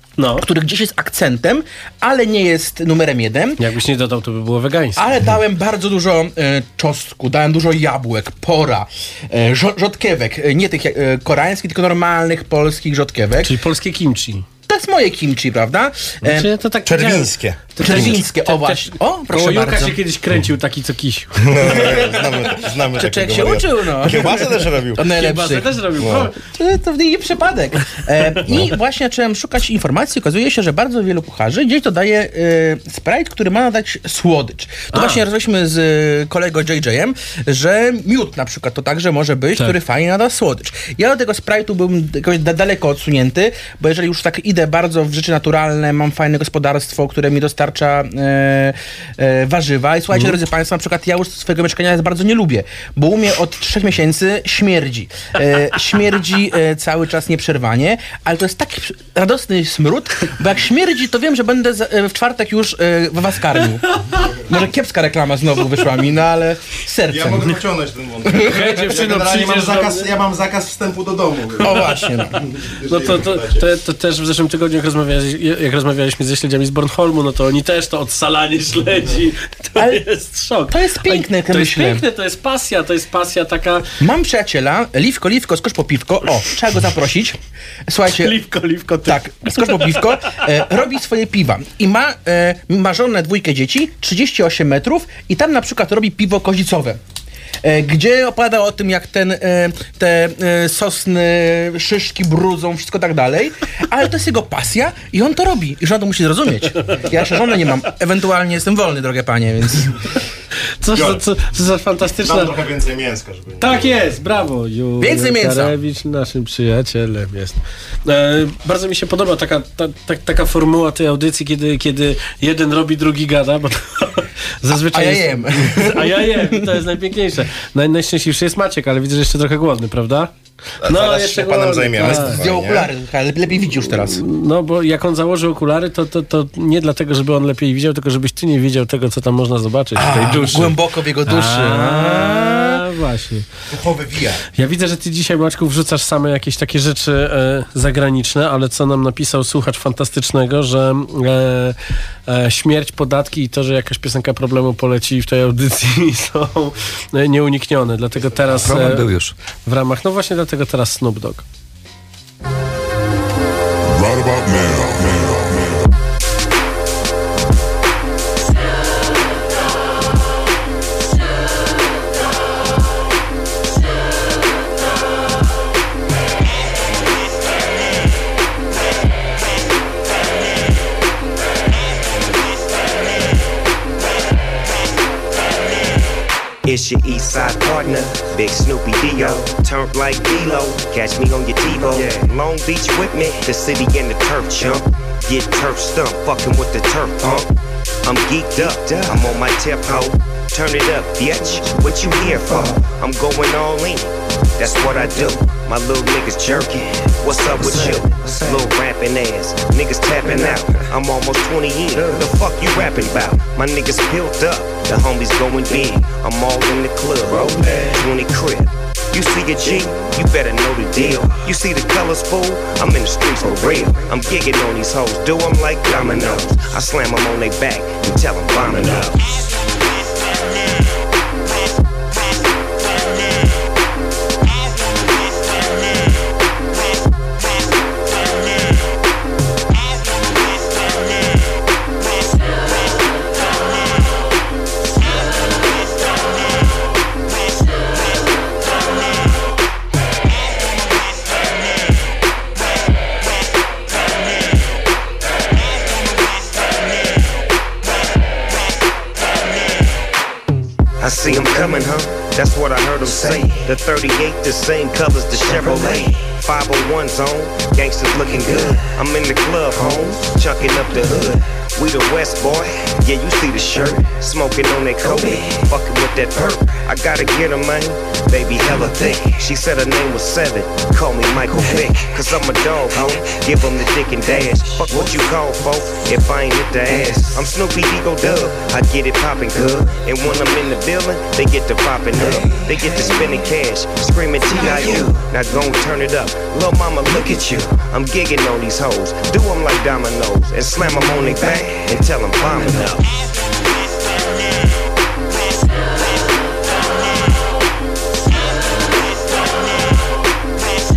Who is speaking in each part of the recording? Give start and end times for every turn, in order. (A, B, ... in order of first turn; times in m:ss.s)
0:00.2-0:00.4 A
0:00.4-0:03.6 B
0:03.6-0:05.0 A
0:05.0-0:13.5 B
0:13.4-0:14.4 A
0:14.7-0:16.5 B
0:16.3-0:22.5 A
0:16.8-0:18.2 C
0:17.8-0:20.0 B
0:21.4-0:25.1 C
0:22.9-0:25.7 B
0:25.1-0:26.3 A
0:26.0-0:26.3 C
0:26.5-1:07.5 B
0:34.9-0:35.2 A
1:07.1-1:11.9 C
1:08.4-1:10.1 A
1:11.6-1:12.4 B
1:11.7-1:12.1 A
1:12.4-1:13.6 C
1:12.8-1:23.9 A
1:20.7-1:22.0 B
1:24.0-1:28.4 B
1:28.2-1:30.4 A
1:29.0-1:37.0 B
1:37.6-1:50.0 B
1:50.8-1:52.5 A
1:50.9-1:51.2 C
1:52.2-1:54.2 C
1:53.6-2:10.3 A
1:55.0-1:55.7 B
2:04.9-2:06.6 B
2:10.8-2:12.9 C
2:10.8-2:12.4 A
2:12.0-2:14.2 B
2:14.1-2:20.7 A
2:20.0-2:22.8 B
2:21.2-2:23.5 A
2:23.7-2:24.4 C
2:24.6-2:41.4 A
2:43.9-2:45.8 D
3:06.6-3:17.5 E
3:18.0-3:49.3 E
4:21.0-5:03.1 E